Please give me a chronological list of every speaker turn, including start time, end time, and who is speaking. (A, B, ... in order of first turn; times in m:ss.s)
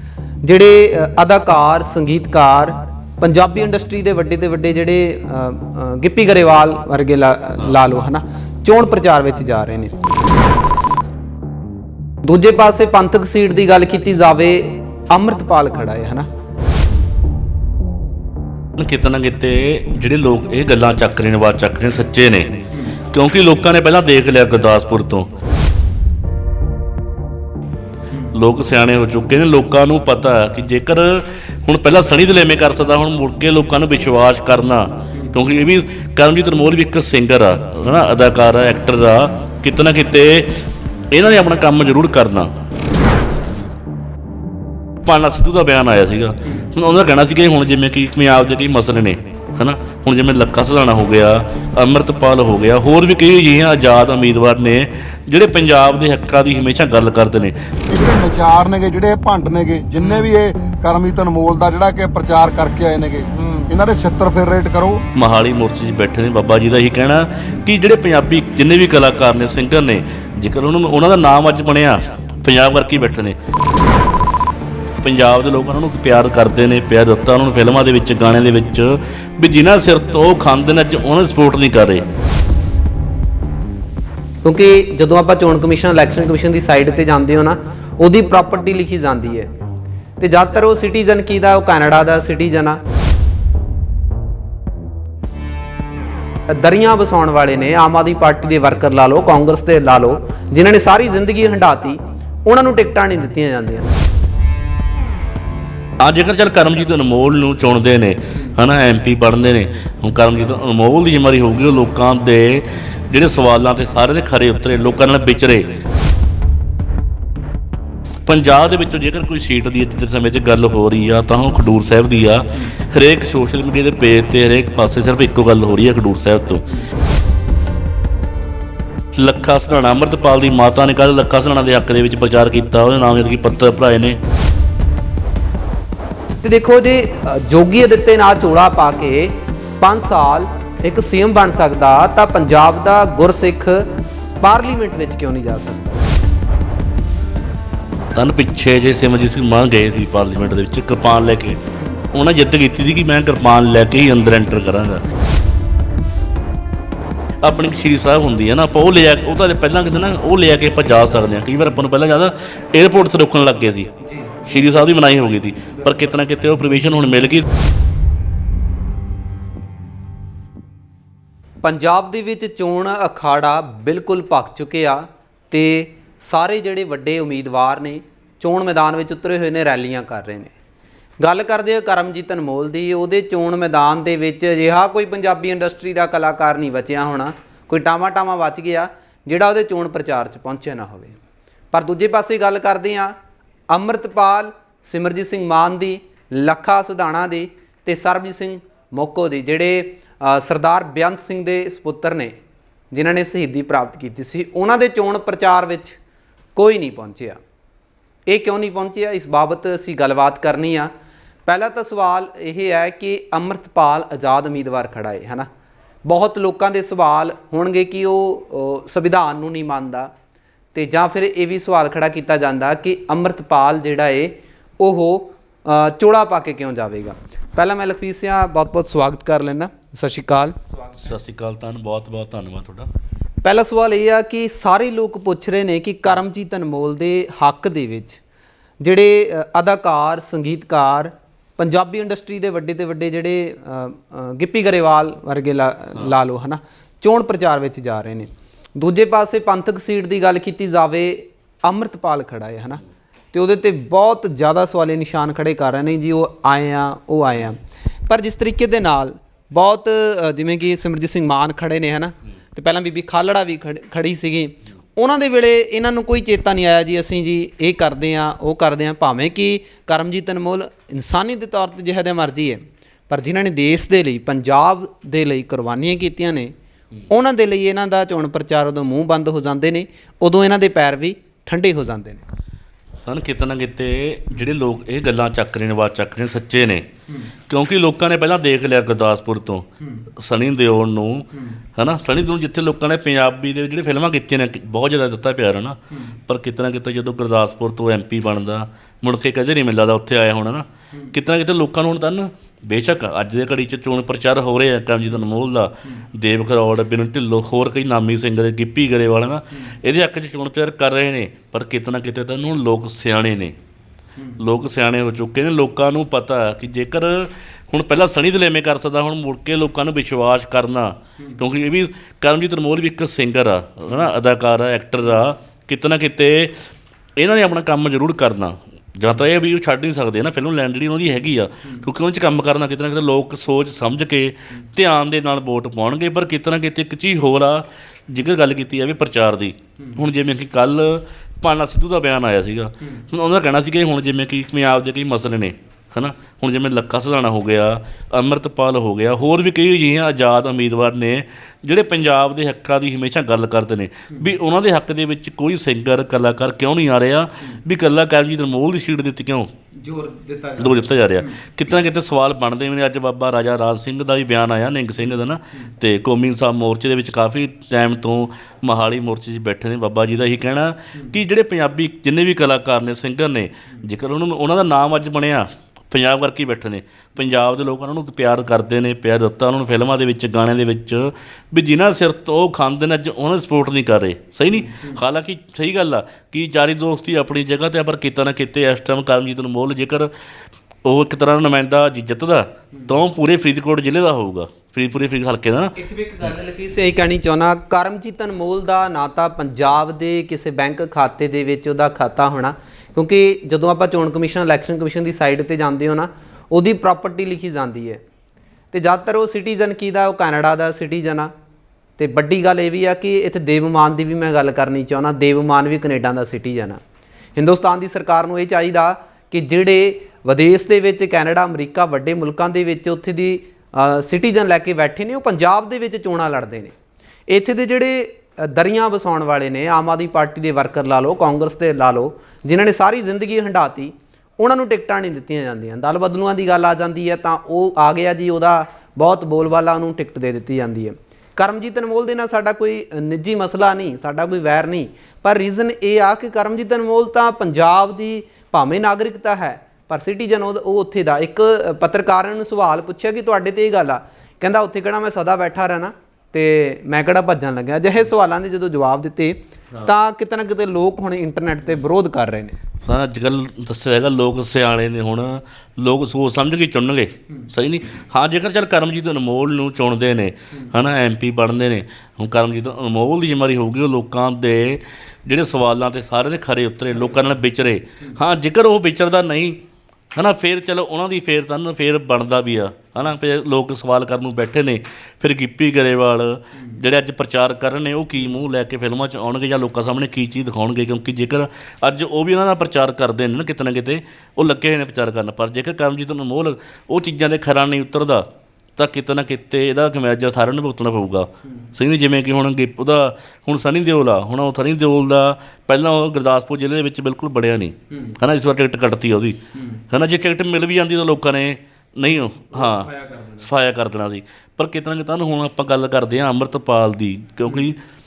0:00.4-0:10.0 A
0:12.3-0:16.3 A
0:18.8-0:25.3 B
0:28.3-0:40.5 B
0:41.1-0:42.5 B
0:45.0-0:57.6 B
0:57.9-1:05.0 C
1:05.2-1:13.4 B
1:15.0-1:22.1 B
1:24.4-1:29.5 A
1:30.2-1:32.8 A
1:36.5-1:43.9 A
1:46.0-1:55.8 B
1:58.2-2:06.7 B
2:09.2-2:14.2 B
2:16.4-2:23.9 A
2:24.4-2:26.2 A
2:28.1-2:31.6 B
2:32.1-2:35.0 B
2:37.4-2:43.9 B
2:44.2-2:44.4 A
2:44.4-2:47.4 B
2:51.6-3:00.5 A
3:01.2-3:11.2 A
3:11.7-3:13.1 A
3:13.7-3:22.3 A
3:22.9-3:26.0 A
3:26.6-3:27.4 A
3:28.3-3:30.9 A
3:31.5-3:35.5 A
3:36.0-3:40.1 A
3:40.7-3:50.8 A
3:51.0-3:52.9 B
3:53.4-3:58.2 A
3:58.8-4:12.8 A
4:13.3-4:36.5 A
4:37.1-4:42.2 A
4:43.1-4:46.9 B
4:47.5-5:13.6 B
5:14.4-5:26.5 B
5:27.2-5:59.5 B
5:59.8-6:00.8 A
6:00.6-6:30.1 B
6:30.8-6:35.7 B
6:35.8-6:48.0 A
6:48.7-6:51.3 A
6:52.0-6:56.8 A
6:57.4-7:06.7 A
7:07.3-7:42.6 A
7:42.8-7:59.6 B
8:00.1-8:18.3 B
8:18.8-8:29.4 B
8:29.9-8:37.8 B
8:32.6-8:33.4 A